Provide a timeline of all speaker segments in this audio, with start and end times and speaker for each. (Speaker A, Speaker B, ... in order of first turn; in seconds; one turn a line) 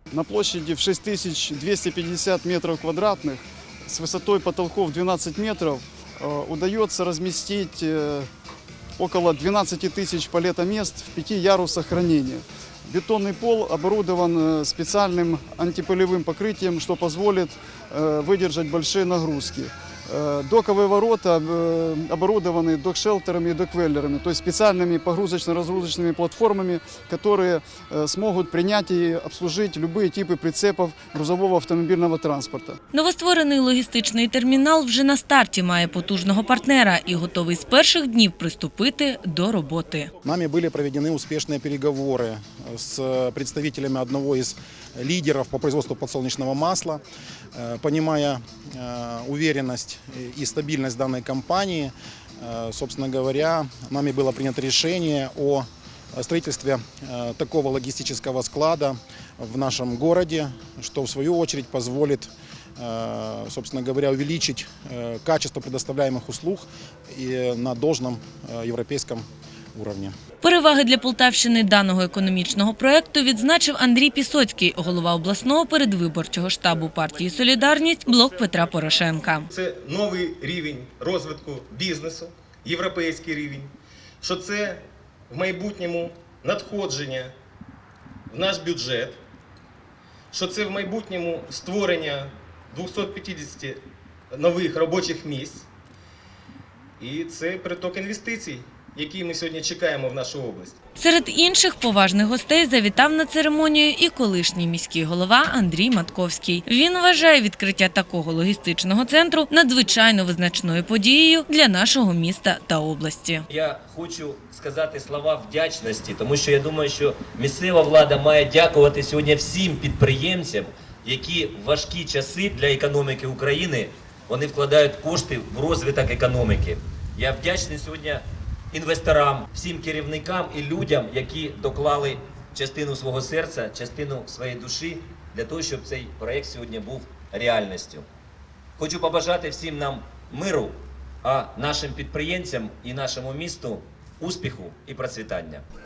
Speaker A: 0.1-8.3
Speaker A: 9.0-32.8
Speaker B: 32.9-40.1
Speaker C: 40.2-47.0
Speaker C: 47.5-70.1
Speaker B: 70.4-79.5
Speaker D: 79.5-87.3
Speaker D: 88.3-89.2
Speaker D: 90.3-95.7
Speaker D: 97.0-100.8
Speaker B: 101.0-113.5
Speaker E: 113.5-138.0
Speaker E: 138.8-145.6